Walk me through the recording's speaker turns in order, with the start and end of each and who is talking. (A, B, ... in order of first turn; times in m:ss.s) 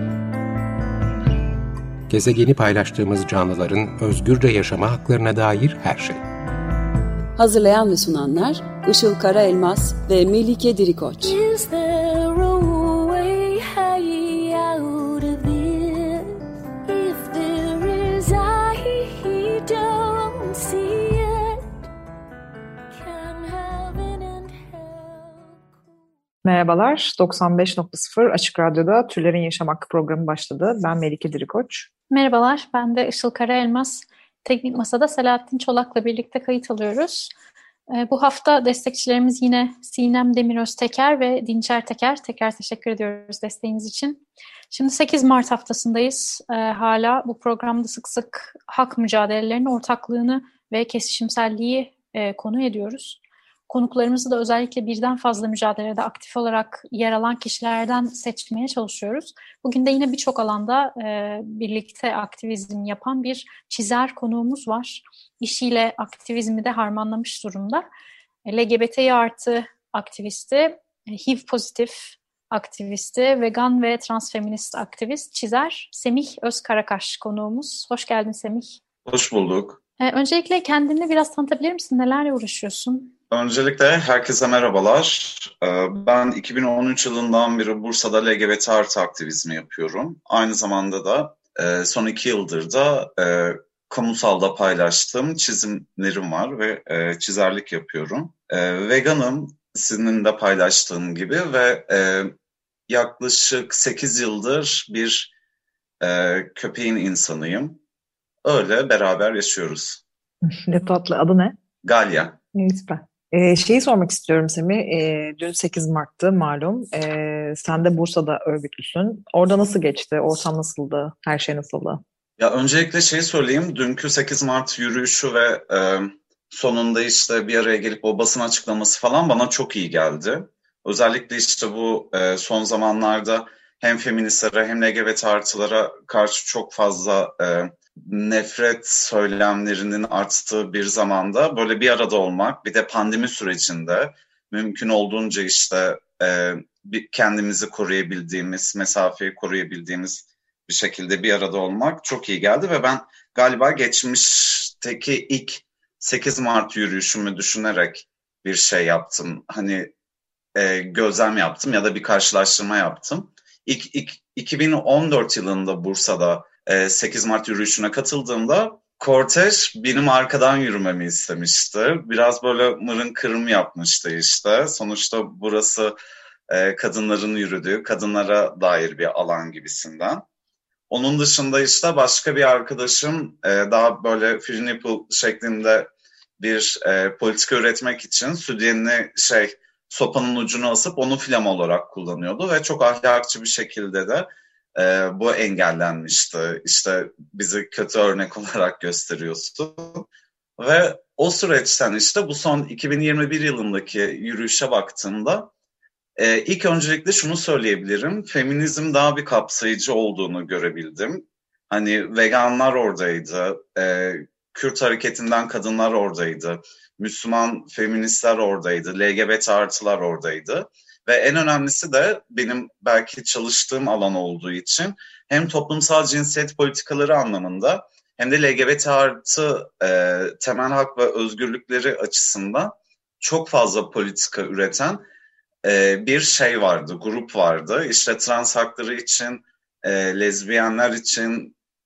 0:02.1-0:06.2 A
0:07.4-0:11.3 B
0:11.2-0:21.6 C
0:23.0-0:25.6 C
0:26.4-0:31.9 D
0:32.1-0:37.3 E
0:37.9-1:07.8 E
1:08.4-1:18.8 E
1:19.0-1:19.8 F
1:20.0-1:23.1 E
1:23.3-1:42.3 F
1:42.9-1:45.3 F
1:46.0-1:47.8 F
1:48.4-1:50.0 F
1:50.5-1:51.6 D
1:51.8-1:52.4 F
1:52.5-2:02.0 D
2:02.4-2:39.9 F
2:40.6-2:55.9 F
2:56.5-3:00.2 F
3:00.9-3:20.1 F
3:20.6-3:25.5 F
3:26.2-3:55.0 F
3:55.6-4:01.5 F